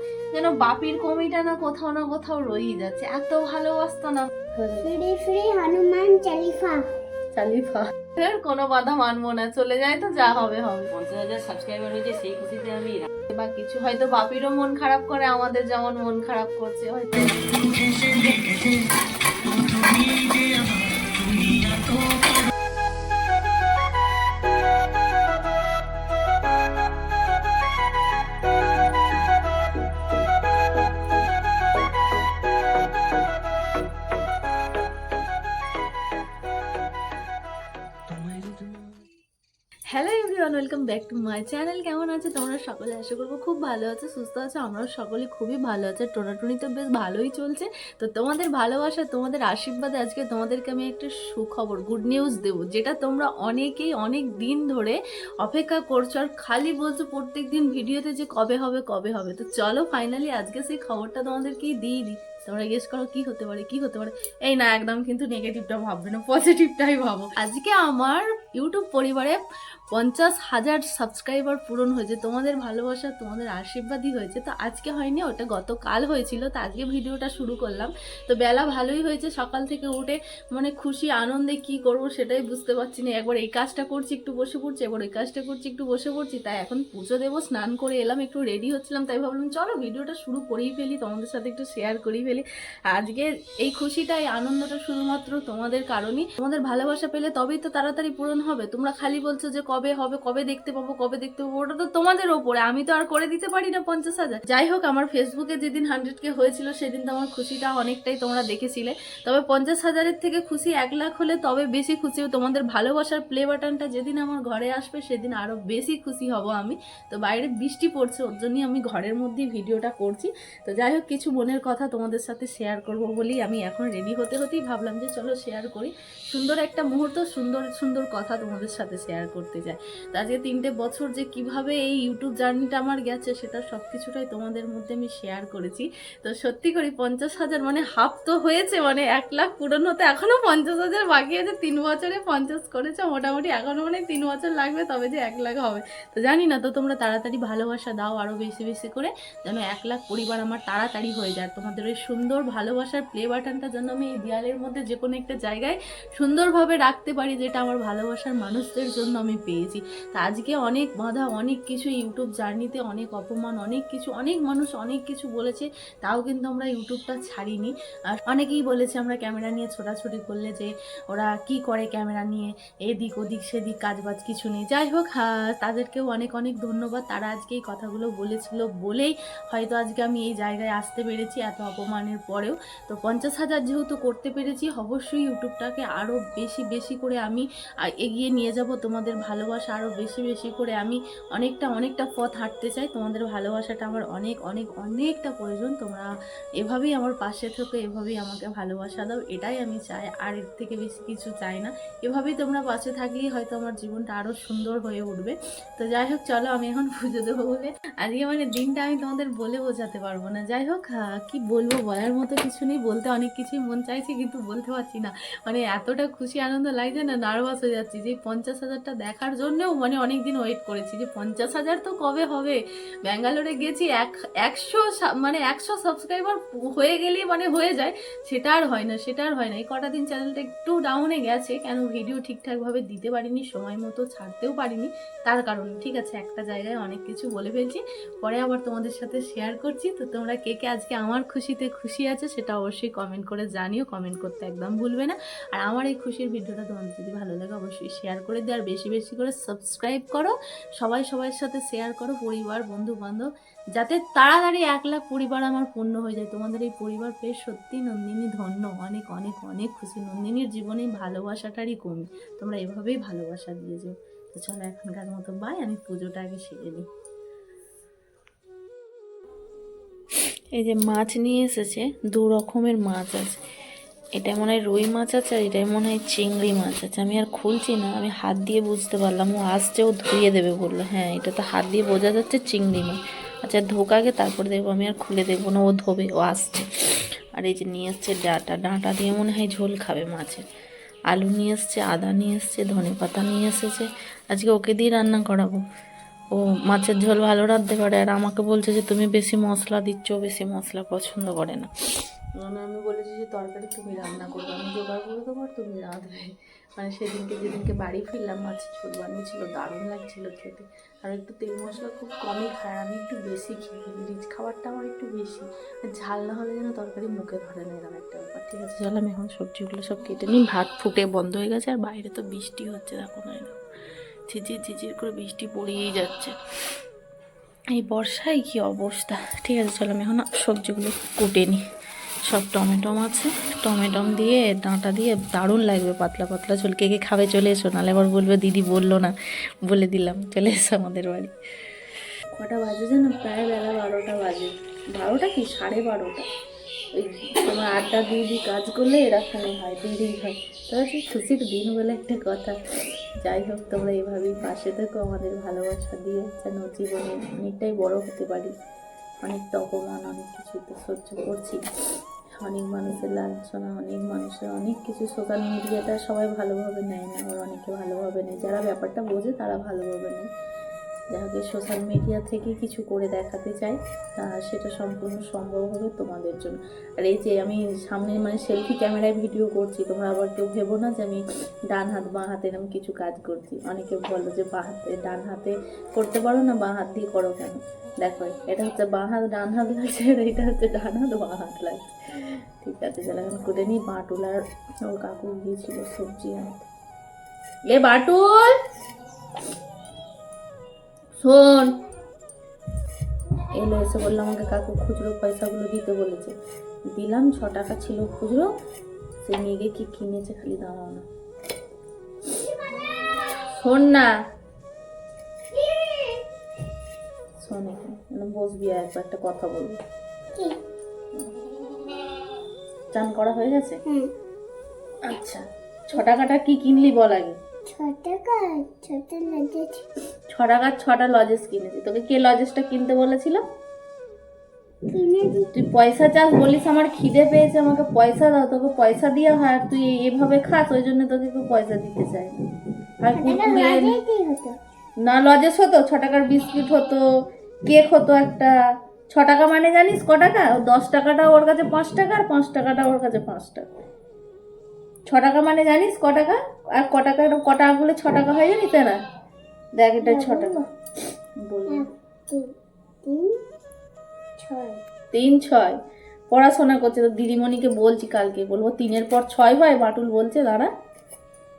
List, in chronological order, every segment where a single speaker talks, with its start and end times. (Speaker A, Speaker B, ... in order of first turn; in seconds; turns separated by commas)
Speaker A: 0.3-4.9, Speaker B: 4.8-6.8, Speaker A: 7.3-10.9, Speaker C: 10.9-13.1, Speaker A: 13.3-17.6, Speaker A: 39.9-69.4, Speaker A: 69.9-266.9, Speaker A: 270.5-273.4, Speaker A: 274.1-290.4, Speaker A: 291.1-295.6, Speaker A: 296.3-301.7, Speaker A: 302.4-323.6, Speaker A: 324.3-326.4, Speaker A: 327.7-331.6, Speaker A: 332.3-339.1, Speaker A: 339.6-341.3, Speaker A: 342.3-346.2, Speaker A: 346.9-352.6, Speaker A: 353.2-358.5, Speaker A: 359.2-361.6, Speaker A: 362.4-370.3, Speaker A: 371.1-396.6, Speaker A: 397.7-398.5, Speaker A: 401.2-401.7, Speaker A: 403.6-406.3, Speaker A: 406.9-408.5, Speaker A: 409.2-411.0, Speaker B: 412.4-413.2, Speaker A: 413.4-414.1, Speaker B: 415.5-416.2, Speaker A: 417.4-419.8, Speaker B: 420.3-420.6, Speaker A: 422.9-423.8, Speaker B: 423.8-424.1, Speaker A: 425.1-427.4, Speaker B: 427.6-429.9, Speaker A: 430.3-433.4, Speaker B: 434.9-435.5, Speaker A: 435.5-442.4, Speaker A: 443.0-443.9, Speaker B: 443.1-444.6, Speaker A: 445.0-447.0, Speaker A: 447.6-448.6, Speaker A: 449.1-453.7, Speaker A: 455.1-459.0, Speaker A: 459.8-460.6, Speaker B: 460.0-460.6, Speaker A: 461.4-461.9, Speaker B: 461.7-462.5, Speaker B: 463.0-463.4, Speaker B: 464.4-464.8, Speaker A: 465.1-465.8, Speaker A: 466.3-470.7